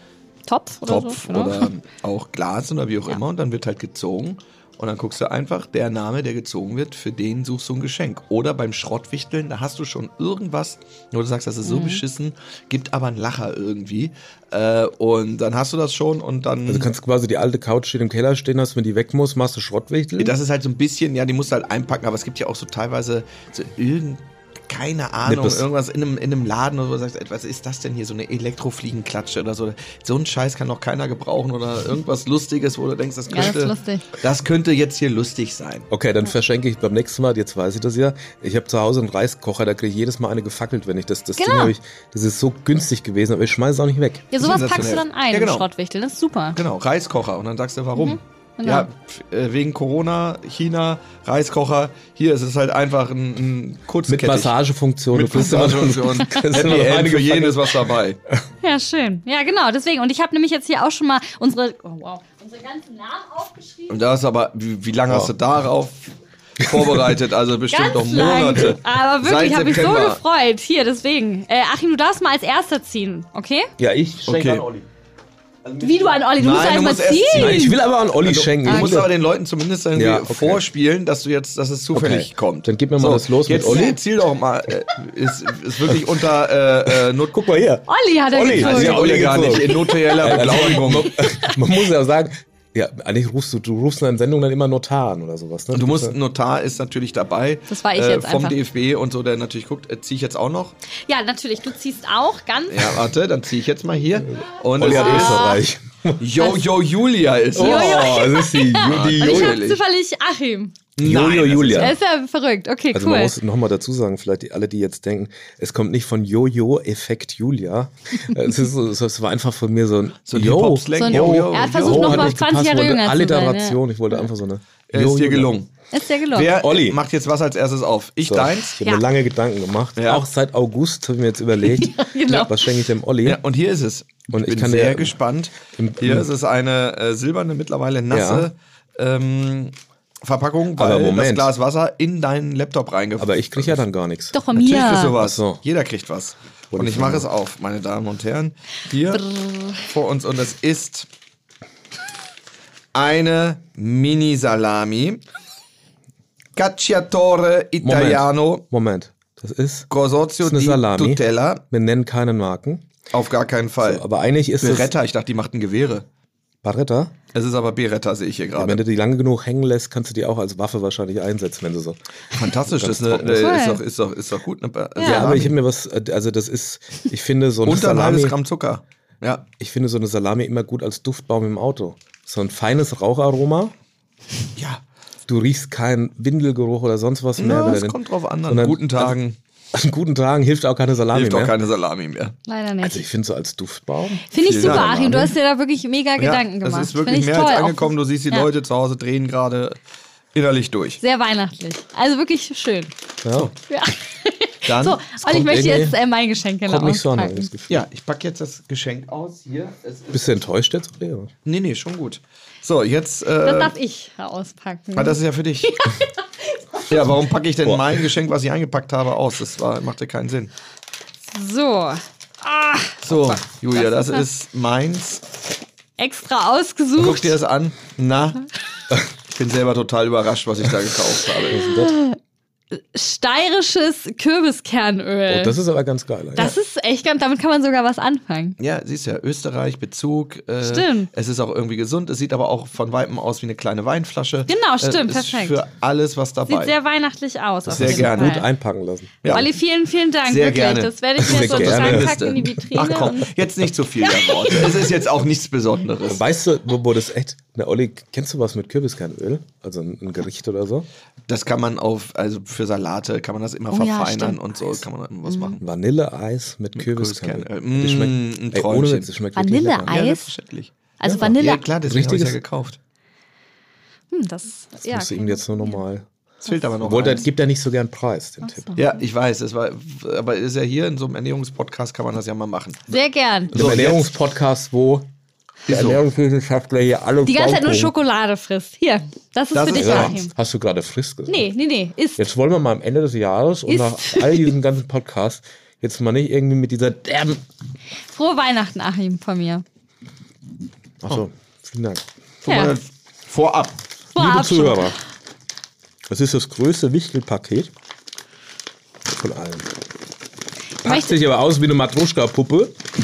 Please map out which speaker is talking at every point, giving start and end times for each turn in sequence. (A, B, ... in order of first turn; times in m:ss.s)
0:00.5-0:01.7 A
0:00.9-0:16.9 B
0:11.6-0:12.0 A
0:16.7-0:20.3 C
0:20.2-0:35.9 B
0:25.3-0:25.7 C
0:33.3-0:34.0 A
0:35.9-0:44.3 C
0:41.4-0:41.7 A
0:44.3-0:46.6 A
0:44.4-0:45.7 B
0:46.6-0:54.6 B
0:48.0-0:48.9 A
0:54.1-0:58.4 C
0:55.1-0:58.2 B
0:58.6-1:04.0 A
1:03.9-1:10.2 B
1:06.6-1:07.0 C
1:07.7-1:13.7 A
1:13.8-1:14.9 C
1:14.2-1:14.6 B
1:15.6-1:16.3 C
1:15.8-1:17.8 A
1:16.4-1:27.4 B
1:17.3-1:19.1 C
1:18.7-1:19.0 A
1:20.0-1:20.6 C
1:22.0-1:24.0 C
1:23.6-1:24.0 A
1:26.9-1:36.2 C
1:27.9-1:31.8 A
1:28.4-1:31.2 B
1:35.7-1:40.8 B
1:37.7-1:38.6 A
1:41.0-1:43.0 A
1:42.7-1:45.5 B
1:44.8-1:46.2 C
1:44.8-1:45.6 A
1:46.2-1:48.2 B
1:46.4-1:46.7 A
1:47.6-1:50.8 A
1:47.6-1:49.6 C
1:48.7-1:49.8 B
1:51.0-1:52.0 B
1:51.0-1:52.0 C
1:51.7-1:53.4 A
1:52.9-2:05.5 C
2:00.3-2:02.4 B
2:01.0-2:04.2 A
2:04.9-2:05.7 B
2:05.9-2:06.5 A
2:06.3-2:08.8 B
2:06.5-2:07.0 C
2:08.2-2:13.4 C
2:10.0-2:10.2 B
2:11.6-2:12.7 A
2:13.2-2:23.8 B
2:14.3-2:15.2 C
2:15.7-2:16.3 C
2:18.1-2:18.5 C
2:20.8-2:21.5 C
2:23.2-2:25.6 C
2:24.3-2:25.2 A
2:24.6-2:31.1 B
2:26.7-2:27.3 C
2:29.1-2:29.9 A
2:32.9-2:35.2 B
2:36.6-2:38.6 B
2:37.8-2:39.9 C
2:39.9-2:41.6 B
2:40.4-2:42.9 C
2:43.1-2:44.0 B
2:43.8-2:44.9 C
2:44.6-2:46.1 B
2:46.6-2:47.1 C
2:47.3-2:48.8 B
2:48.6-2:52.0 C
2:52.3-2:55.6 B
2:52.5-2:53.6 C
2:53.3-2:53.8 A
2:55.0-2:55.5 A
2:55.0-2:58.4 C
2:57.6-2:59.5 B
2:59.6-3:03.7 C
3:04.6-3:04.8 B
3:05.3-3:09.2 C
3:07.4-3:09.4 B
3:09.7-3:11.5 C
3:11.1-3:12.4 B
3:12.5-3:13.0 A
3:12.8-3:15.4 C
3:14.3-3:18.5 A
3:14.4-3:15.2 B
3:16.2-3:19.8 B
3:20.3-3:21.0 B
3:21.0-3:22.9 A
3:23.2-3:23.5 C
3:23.6-3:27.5 A
3:24.7-3:25.0 B
3:25.2-3:26.0 C
3:26.7-3:27.8 C
3:27.7-3:30.4 B
3:30.1-3:31.3 C
3:31.4-3:33.7 B
3:33.4-3:37.1 A
3:35.0-3:35.9 B
3:36.9-3:40.5 B
3:37.6-3:38.0 C
3:41.3-3:44.2 A
3:43.0-3:45.2 B
3:46.0-3:47.4 A
3:47.0-3:48.4 B
3:49.3-3:51.6 B
3:51.5-3:52.2 A
3:51.5-3:52.0 C
3:52.7-3:55.6 A
3:55.3-3:56.6 C
3:56.4-3:58.6 A
3:58.6-4:06.7 B
4:00.6-4:01.1 A
4:04.5-4:05.6 A
4:06.5-4:08.5 A
4:07.6-4:09.2 C
4:07.7-4:08.4 B
4:09.2-4:09.5 B
4:09.3-4:13.3 A
4:10.3-4:16.2 B
4:11.2-4:12.6 C
4:14.0-4:14.9 A
4:16.1-4:20.9 C
4:21.3-4:25.6 B
4:23.7-4:24.4 A
4:25.3-4:25.6 A
4:25.6-4:30.0 C
4:26.8-4:29.1 B
4:29.4-4:30.3 A
4:29.8-4:32.8 B
4:31.0-4:31.6 A
4:31.0-4:31.3 C
4:31.9-4:32.4 C
4:34.1-4:35.8 A
4:34.8-4:36.1 C
4:36.4-4:37.3 B
4:36.5-4:37.2 A
4:36.8-4:38.7 C
4:38.4-4:39.0 A
4:38.8-4:42.9 B
4:42.9-4:43.6 A
4:43.5-4:44.1 B
4:43.5-4:45.1 C
4:45.7-4:46.0 B
4:45.7-4:47.9 C
4:47.2-4:50.3 A
4:49.6-4:50.2 B
4:49.8-4:51.5 C
4:51.3-4:52.2 A
4:52.2-4:57.4 C
4:53.7-4:54.5 A
4:58.1-4:59.6 A
5:01.0-5:02.0 C
5:02.4-5:03.8 B
5:02.5-5:02.8 A
5:04.2-5:04.9 A
5:04.2-5:05.0 C
5:06.1-5:07.7 C
5:09.1-5:09.7 C
5:10.8-5:12.8 C
5:10.8-5:11.1 A